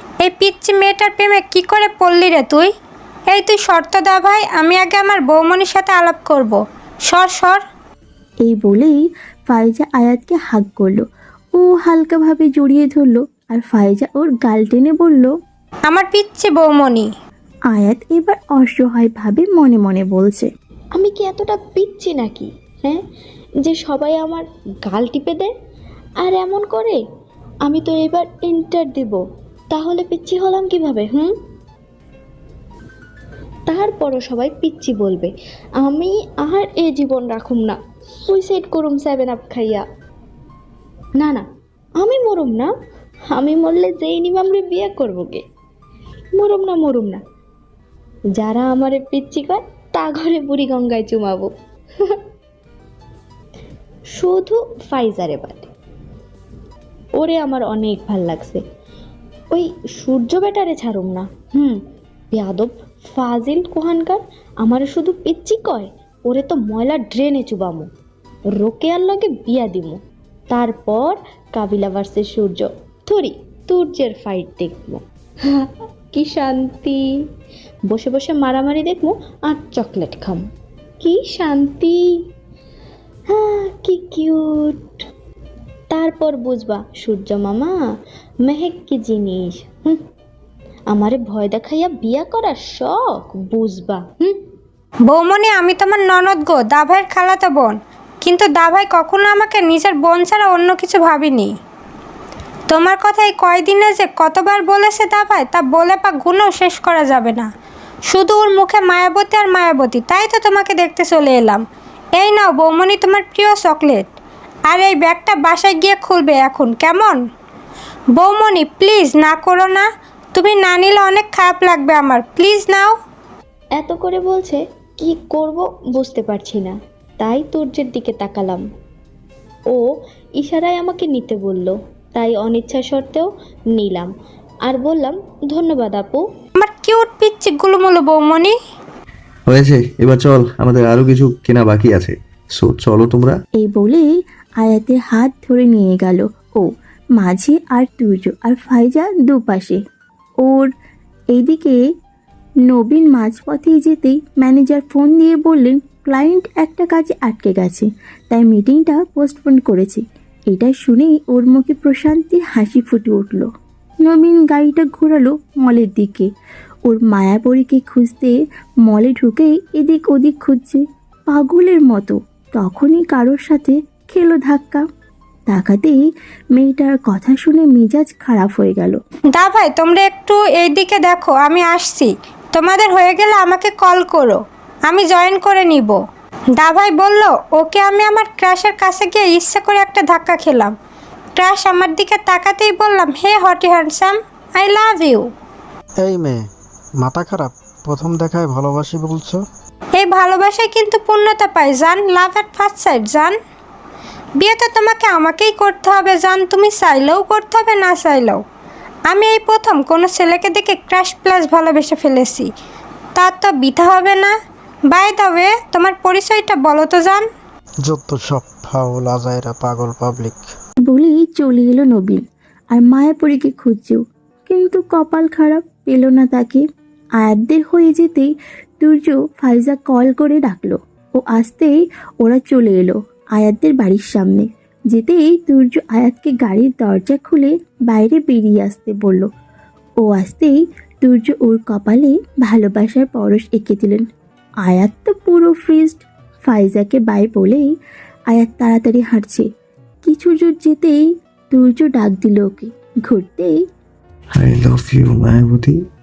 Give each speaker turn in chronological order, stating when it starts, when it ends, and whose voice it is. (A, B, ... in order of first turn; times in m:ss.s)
0:00.2-0:02.7 A
0:03.3-0:06.6 A
0:07.1-0:07.6 A
0:08.4-0:09.0 B
0:09.5-0:11.0 B
0:11.6-0:15.3 B
0:15.9-0:17.1 A
0:17.7-0:20.5 B
0:21.0-0:23.0 C
0:23.6-0:25.5 C
0:26.2-0:27.0 C
0:27.6-0:29.2 C
0:29.7-0:31.3 C
0:33.7-0:35.3 C
0:35.8-0:39.8 C
0:41.2-0:41.4 C
0:42.0-0:42.7 C
0:43.3-0:45.4 C
0:46.4-0:47.2 C
0:48.4-0:52.2 C
0:54.2-0:55.7 C
0:57.2-0:58.6 C
0:59.5-1:07.9 C
1:08.6-1:10.0 C
1:10.5-1:17.0 C
1:17.9-1:20.4 C
1:21.0-1:22.0 C
1:23.3-1:24.9 C
1:25.9-1:27.8 C
1:28.4-1:30.0 C
1:30.9-1:34.4 C
1:35.0-1:41.5 A
1:42.7-1:47.5 A
1:48.1-1:51.6 A
1:52.2-1:54.1 A
1:54.7-1:57.2 A
1:58.1-2:02.9 A
2:03.8-2:08.6 C
2:10.4-2:14.1 C
2:14.7-2:16.2 C
2:16.6-2:18.6 A
2:19.5-2:23.4 D
2:23.6-2:24.1 B
2:24.6-2:29.8 B
2:30.4-2:30.7 B
2:31.3-2:31.8 B
2:32.7-2:43.5 B
2:44.0-2:46.3 B
2:46.8-2:54.8 B
2:55.5-2:56.0 B
2:56.6-2:59.0 B
2:59.3-3:06.0 A
3:06.6-3:10.7 A
3:11.4-3:15.3 A
3:16.0-3:19.4 E
3:20.0-3:23.4 A
3:24.4-3:28.4 A
3:29.1-3:32.5 A
3:33.2-3:34.3 A
3:34.9-3:37.3 A
3:37.8-3:40.5 E
3:40.8-3:46.6 B
3:47.2-3:59.3 B
4:00.0-4:04.0 B
4:04.6-4:07.6 B
4:08.3-4:09.5 B
4:10.0-4:13.6 B
4:14.3-4:15.8 D